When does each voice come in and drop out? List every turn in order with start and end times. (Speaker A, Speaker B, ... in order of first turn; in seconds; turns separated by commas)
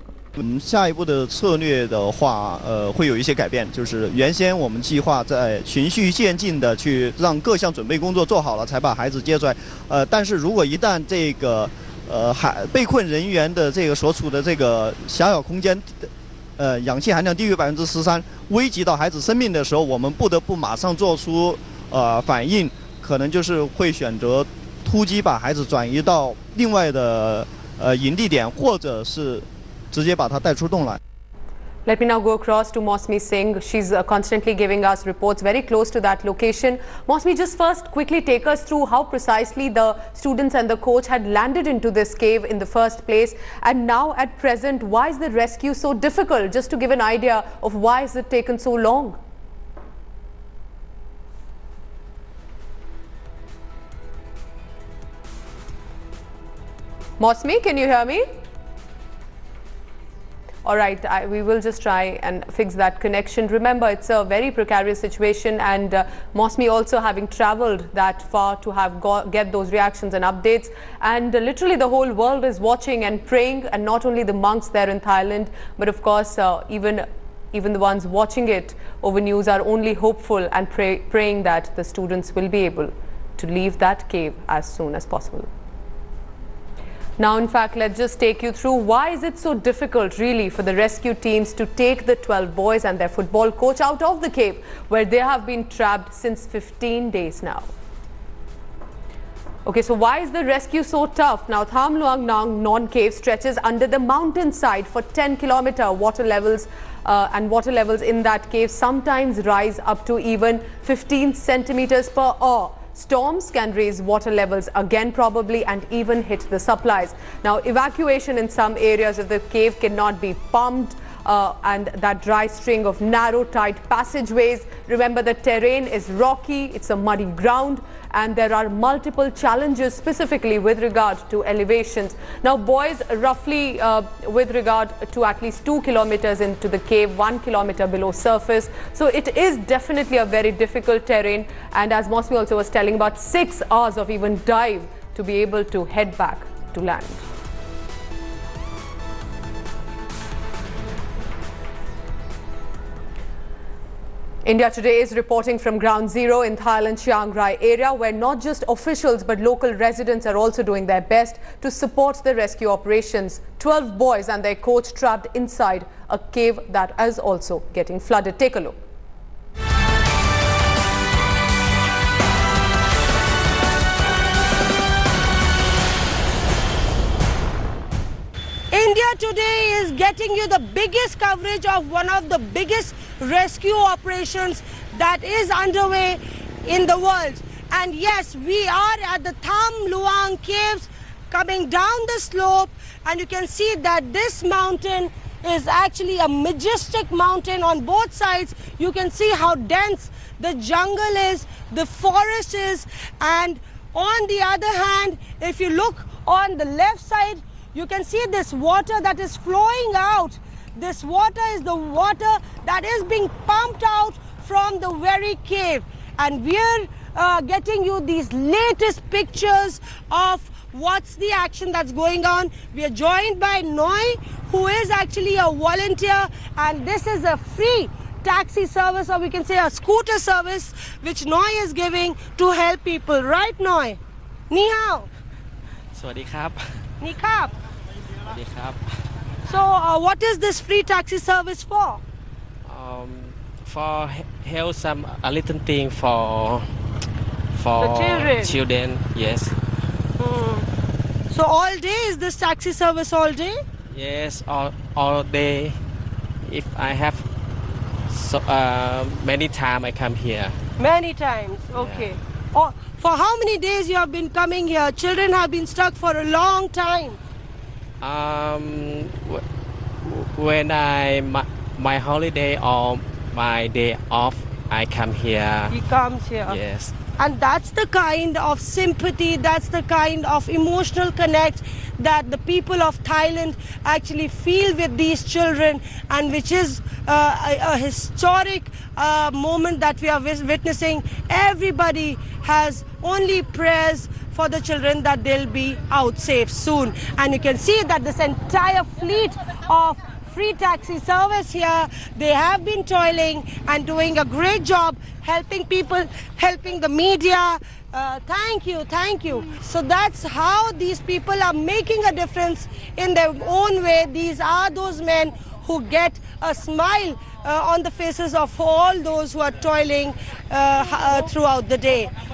Speaker A: 0.3-31.0, Speaker B: 31.9-49.2, Speaker B: 57.2-58.3, Speaker B: 60.6-85.5, Speaker B: 87.2-97.7, Speaker B: 99.7-147.2, Speaker B: 154.4-168.8, Speaker C: 178.7-234.0, Speaker C: 234.5-235.1, Speaker D: 235.9-236.8, Speaker C: 237.0-237.6, Speaker D: 238.3-238.8, Speaker C: 239.5-242.0, Speaker D: 242.7-246.7, Speaker D: 247.5-249.6, Speaker C: 247.8-248.6, Speaker C: 250.2-250.7, Speaker C: 251.3-253.6, Speaker D: 253.9-255.8, Speaker D: 256.4-257.3, Speaker D: 258.1-260.6, Speaker C: 260.8-267.2, Speaker D: 261.8-262.1, Speaker D: 268.0-269.4, Speaker D: 270.0-275.8, Speaker C: 275.7-276.6, Speaker D: 276.5-276.9, Speaker C: 277.2-322.1